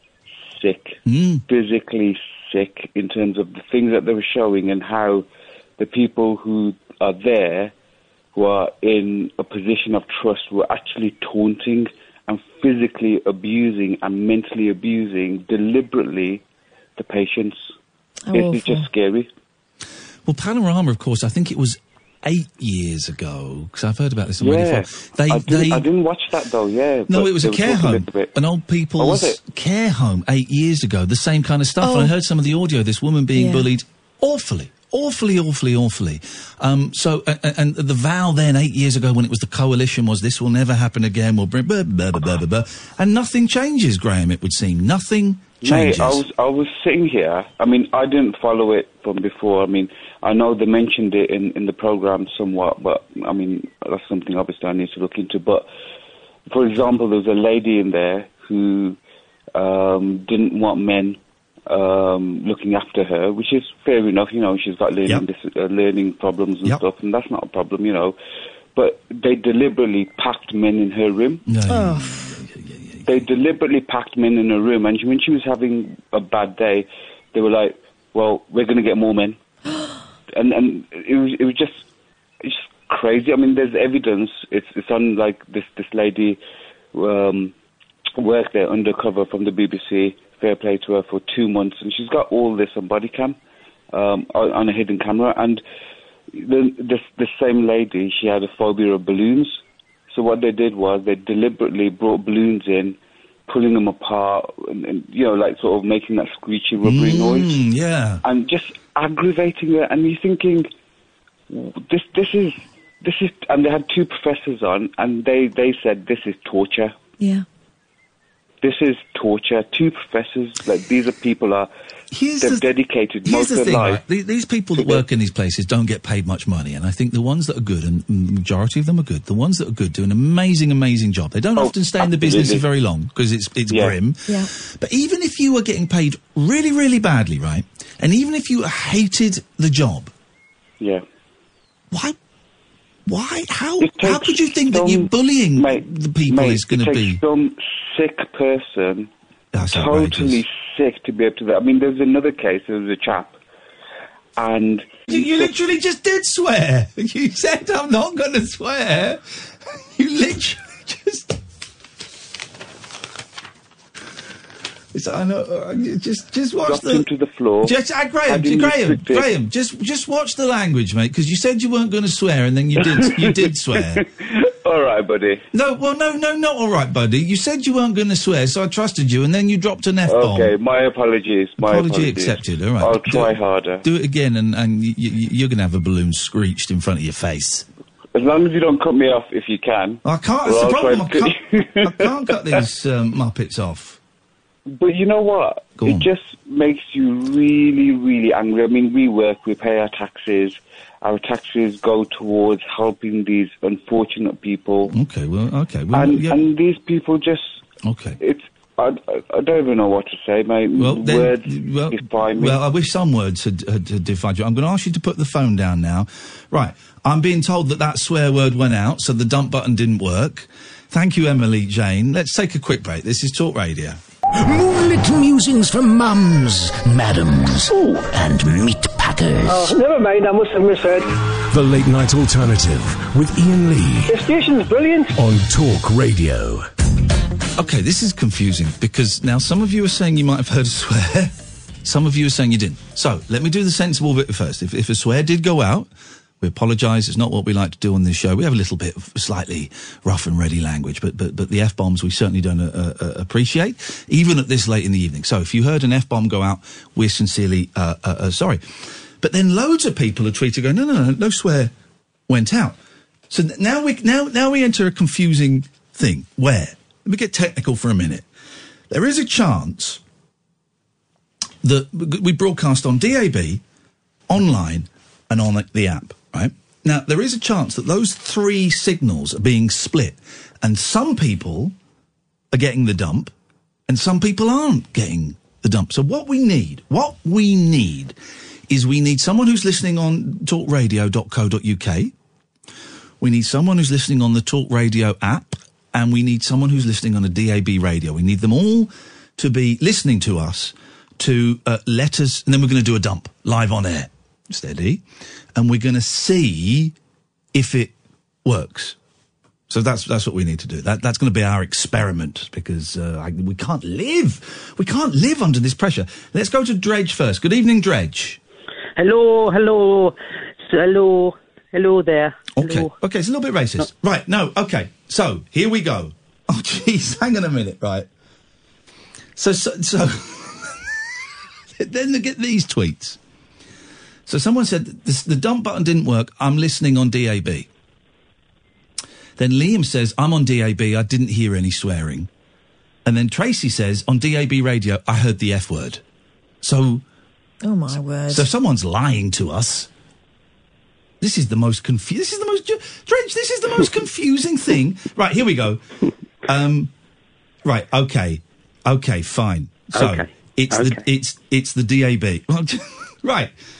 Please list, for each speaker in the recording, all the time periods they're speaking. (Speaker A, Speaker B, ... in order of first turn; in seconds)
Speaker A: 0.5-5.2, 5.8-7.7, 8.3-16.4, 16.9-17.6, 18.3-19.3, 24.4-28.3, 29.0-29.4, 45.6-55.7, 56.5-59.0, 59.5-68.2, 68.7-71.4, 73.0-79.4, 80.3-81.8, 82.4-86.4, 86.9-87.5, 88.2-93.4, 93.9-95.6, 96.3-99.6, 100.1-107.6, 108.2-110.7, 111.5-117.0, 118.6-121.7, 122.4-124.0, 131.6-132.6, 133.7-133.9, 143.8-153.4, 154.4-155.2, 166.6-167.8, 168.3-169.3, 172.9-175.4, 180.1-183.8, 188.1-192.1, 194.7-204.9, 205.9-207.6, 208.2-212.6
Speaker B: 1.1-1.4, 20.2-25.9, 27.1-46.2, 71.5-73.3, 106.8-108.2, 122.1-122.7, 123.2-140.1, 141.9-142.2, 143.1-147.2, 149.5-150.4, 155.1-159.2, 159.7-161.4, 164.9-167.1, 167.6-174.0, 175.5-180.5, 181.6-187.7, 190.0-194.0, 195.8-196.1, 204.9-206.4, 207.8-208.2, 210.8-224.0, 237.6-245.9, 246.4-258.6, 259.2-261.7, 262.3-262.8, 263.3-268.2, 268.9-270.0, 271.6-273.6, 274.3-281.7, 282.5-283.3, 283.9-288.1, 288.7-292.1, 293.2-305.0, 305.5-306.9, 307.5-307.9, 308.4-309.0, 309.7-318.4, 322.5-328.1, 329.4-331.0, 331.8-333.2, 334.3-337.7, 339.4-342.3, 343.0-346.0, 346.6-347.0, 348.3-349.9, 351.2-355.8, 356.5-356.9, 357.6-363.5
Speaker C: 18.3-18.9, 31.8-32.1, 33.3-33.6, 71.7-72.1, 117.2-117.4, 347.6-348.5
Speaker D: 224.4-229.7
Speaker E: 229.5-231.0, 234.1-235.1
Speaker F: 231.5-234.2, 235.1-236.7
Speaker G: 319.0-322.9, 359.9-361.0